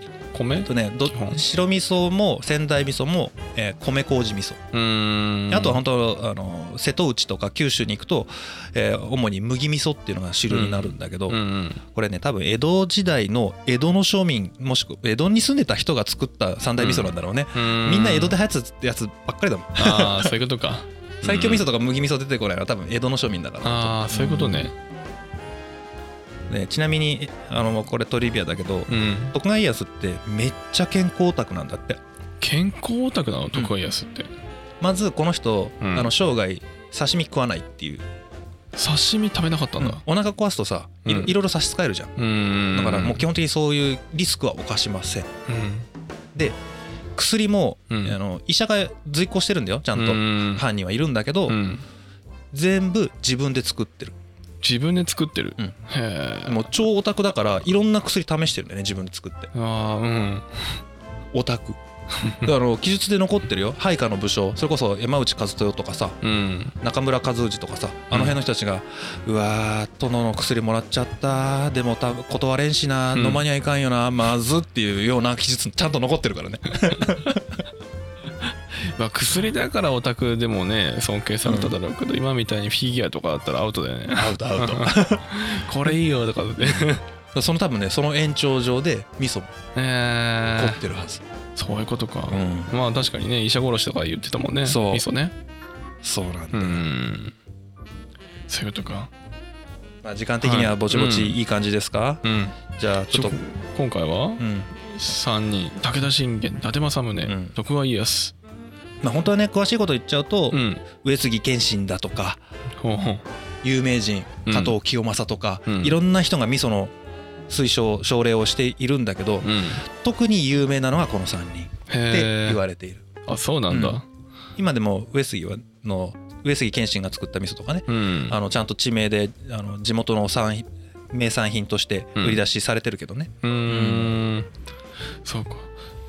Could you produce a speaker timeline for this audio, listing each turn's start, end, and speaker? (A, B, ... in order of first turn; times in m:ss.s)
0:00.3-0:01.4 A
0:00.6-0:04.6 B
0:04.7-0:05.8 A
0:05.5-0:11.4 B
0:10.5-0:11.8 A
0:11.9-0:20.4 B
0:16.8-0:18.3 A
0:19.8-0:21.6 A
0:21.2-0:24.7 B
0:23.6-0:24.7 A
0:26.5-0:32.0 B
0:28.9-0:29.3 A
0:32.4-0:34.3 A
0:34.8-0:38.0 B
0:35.8-0:36.1 A
0:38.8-0:40.0 A
0:39.8-0:42.1 B
0:41.0-0:41.3 A
0:42.2-0:43.2 A
0:42.7-0:45.3 B
0:45.5-0:45.8 A
0:47.2-0:51.6 B
0:47.9-0:48.2 A
0:49.9-0:50.6 A
0:51.5-0:51.8 A
0:52.5-0:54.1 B
0:54.6-0:56.7 A
0:56.4-0:59.5 B
0:59.5-1:00.8 A
1:01.3-1:01.8 B
1:02.4-1:06.2 B
1:06.2-1:06.7 A
1:06.8-1:17.4 B
1:13.1-1:13.4 A
1:16.9-1:17.2 A
1:18.9-1:27.0 A
1:21.4-1:21.7 B
1:24.1-1:25.6 B
1:27.3-1:29.5 B
1:29.7-1:30.8 A
1:30.6-1:31.2 B
1:31.6-1:35.3 A
1:32.3-1:32.7 B
1:34.6-1:35.0 B
1:36.0-1:36.8 B
1:36.5-1:37.3 A
1:38.5-1:39.1 A
1:40.0-1:42.2 B
1:40.4-1:41.4 A
1:42.2-1:42.6 A
1:42.8-1:43.4 B
1:43.1-1:48.3 A
1:44.4-1:44.7 B
1:47.2-1:47.5 B
1:49.0-1:52.4 B
1:50.5-1:50.8 A
1:52.8-1:53.2 A
1:53.6-1:56.9 B
1:54.4-1:54.8 A
1:55.7-1:56.0 A
1:57.5-2:03.1 B
1:59.4-1:59.8 A
2:01.9-2:02.6 A
2:03.3-2:04.0 A
2:03.7-2:04.0 B
2:04.6-2:14.2 B
2:07.9-2:08.4 A
2:13.4-2:14.5 A
2:15.2-2:15.7 A